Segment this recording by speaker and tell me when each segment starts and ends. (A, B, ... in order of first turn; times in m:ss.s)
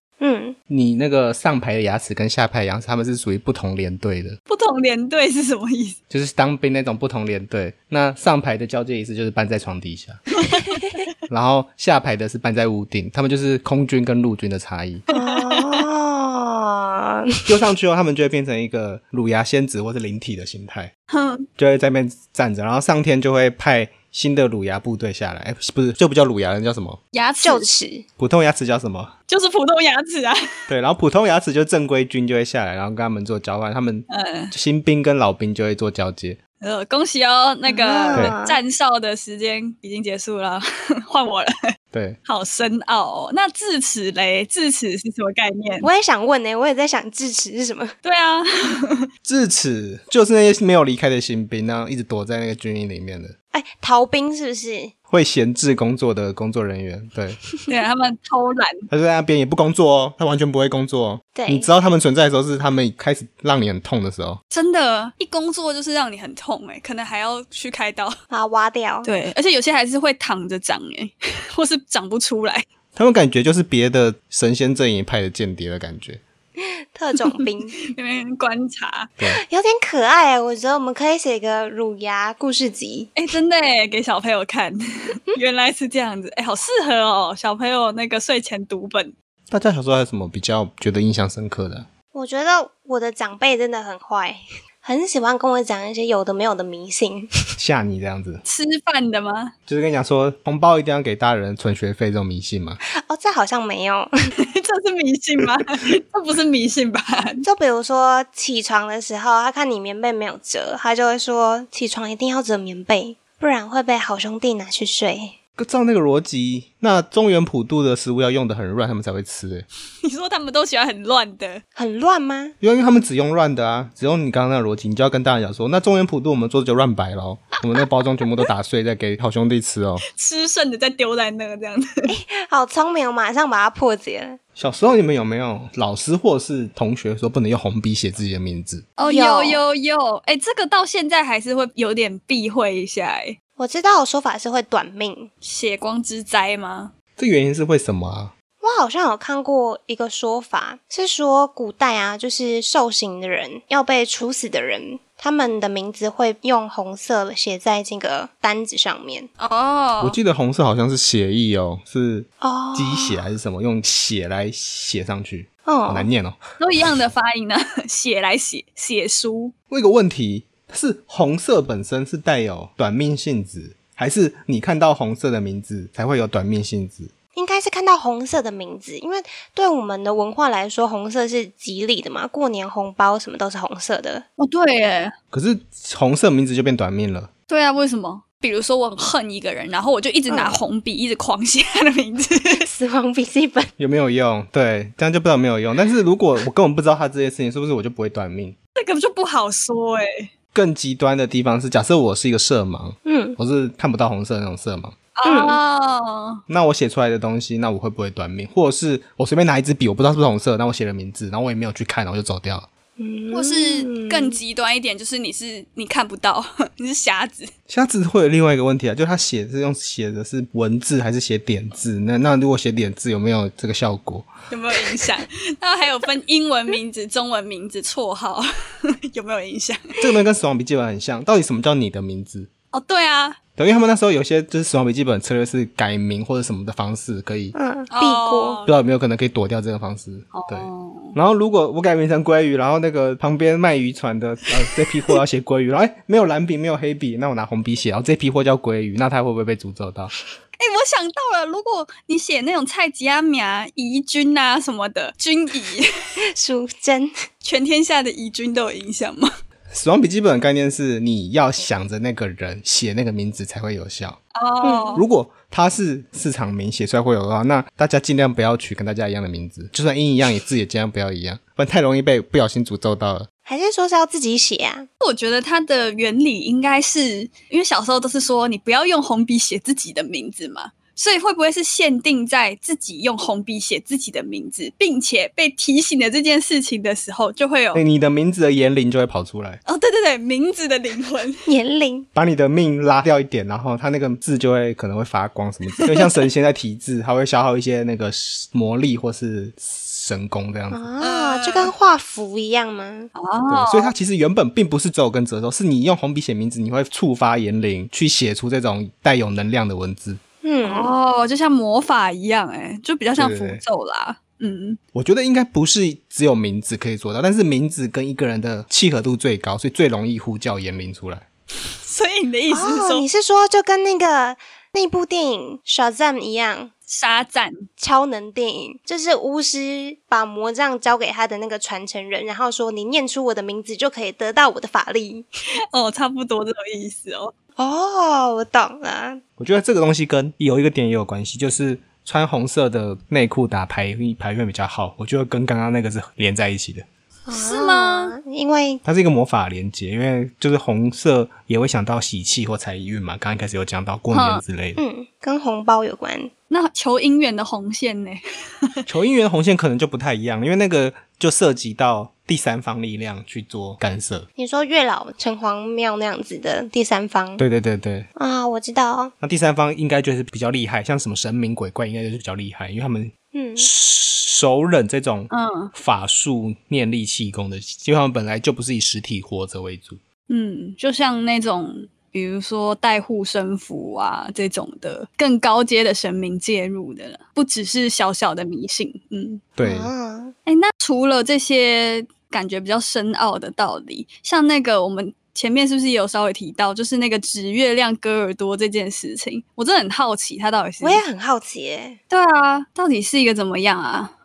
0:00.2-0:00.6 A
0:00.7-0:04.4 B
0:04.5-0:06.0 C
0:06.1-0:10.2 B
0:10.4-0:11.0 C
0:11.3-0:15.0 B
0:15.1-0:15.8 C
0:15.1-0:17.6 A
0:17.5-0:20.9 B
0:21.1-0:21.4 C
0:21.6-0:27.0 B
0:27.1-0:27.7 C
0:27.4-0:28.0 A
0:28.2-0:29.1 B
0:29.3-0:30.4 C
0:30.7-0:36.4 B
0:34.1-0:34.5 C
0:36.6-0:41.5 C
0:37.7-0:38.6 A
0:41.9-0:42.2 B
0:42.2-0:45.9 C
0:45.8-0:47.9 A
0:48.0-0:49.0 C
0:49.2-0:53.3 B
0:53.5-0:54.9 A
0:55.1-0:57.4 B
0:57.7-0:58.8 C
0:58.9-1:04.4 B
1:01.3-1:01.7 A
1:04.5-1:08.1 C
1:08.3-1:09.1 A
1:09.0-1:12.6 C
1:12.9-1:16.2 B
1:16.6-1:17.7 A
1:17.9-1:19.2 C
1:19.4-1:23.1 A
1:23.2-1:24.8 C
1:25.3-1:29.1 C
1:29.5-1:31.9 B
1:32.1-1:37.3 A
1:37.6-1:38.4 B
1:38.4-1:39.5 C
1:39.7-1:42.8 B
1:43.0-1:44.1 A
1:44.5-1:47.4 C
1:47.4-1:55.4 A
1:55.6-1:59.6 B
2:00.0-2:01.6 C
2:01.7-2:02.5 A
2:02.6-2:10.0 B
2:10.1-2:11.9 C
2:12.1-2:14.4 A
2:14.6-2:18.9 B
2:19.0-2:23.4 C
2:19.0-2:19.6 A
2:23.6-2:25.3 A
2:25.4-2:26.9 C
2:27.2-2:28.3 B
2:28.6-2:39.3 A
2:39.4-2:40.2 C
2:40.0-2:46.4 B
2:42.4-2:43.2 A
2:45.6-2:46.1 A
2:46.6-2:49.5 C
2:49.7-2:57.1 B
2:57.3-3:04.2 A
3:04.4-3:05.1 C
3:05.3-3:07.3 B
3:07.5-3:12.7 C
3:10.3-3:10.6 A
3:12.7-3:13.7 A
3:13.8-3:18.6 B
3:18.8-3:20.3 C
3:20.5-3:25.0 B
3:23.0-3:23.4 A
3:25.2-3:26.4 C
3:25.2-3:25.6 A
3:26.5-3:32.7 B
3:33.0-3:34.4 A
3:33.3-3:37.5 C
3:37.7-3:44.3 B
3:44.5-3:50.0 C
3:50.0-3:52.5 B
3:52.7-3:53.4 C
3:53.6-3:57.5 B
3:57.5-3:58.6 A
3:57.9-3:58.7 C
3:58.6-4:10.2 B
4:00.3-4:01.2 C
4:10.6-4:15.8 C
4:16.3-4:17.1 A
4:17.4-4:19.3 C
4:19.7-4:24.2 B
4:24.3-4:25.0 C
4:24.6-4:24.9 A
4:24.9-4:33.3 B
4:33.4-4:34.9 A
4:35.0-4:47.8 C
4:47.7-4:49.6 B
4:49.6-4:51.4 C
4:51.4-4:52.1 A
4:52.1-5:00.9 B
4:55.9-4:56.2 C
5:00.7-5:03.1 A
5:01.0-5:01.7 C
5:03.1-5:03.9 C
5:03.5-5:10.2 B
5:10.4-5:10.9 A
5:10.6-5:14.8 C
5:13.2-5:13.6 B
5:14.9-5:21.2 B
5:21.8-5:23.0 C
5:22.5-5:26.7 A
5:26.9-5:27.7 C
5:27.8-5:35.2 A
5:35.7-5:37.3 C
5:37.6-5:39.2 A
5:39.4-5:46.8 B
5:47.3-5:48.8 A
5:47.3-5:48.1 C
5:48.8-5:54.8 B
5:54.1-5:54.4 C
5:54.8-5:56.3 A
5:56.5-5:58.2 C
5:58.8-6:04.2 B
6:04.4-6:07.4 A
6:07.4-6:08.1 B
6:08.2-6:09.1 A
6:09.2-6:20.0 B
6:13.3-6:13.7 A
6:15.3-6:15.7 C
6:20.3-6:29.4 C
6:29.6-6:29.9 B
6:29.6-6:30.3 A
6:30.4-6:41.0 C
6:40.8-6:42.0 A
6:42.1-6:44.1 C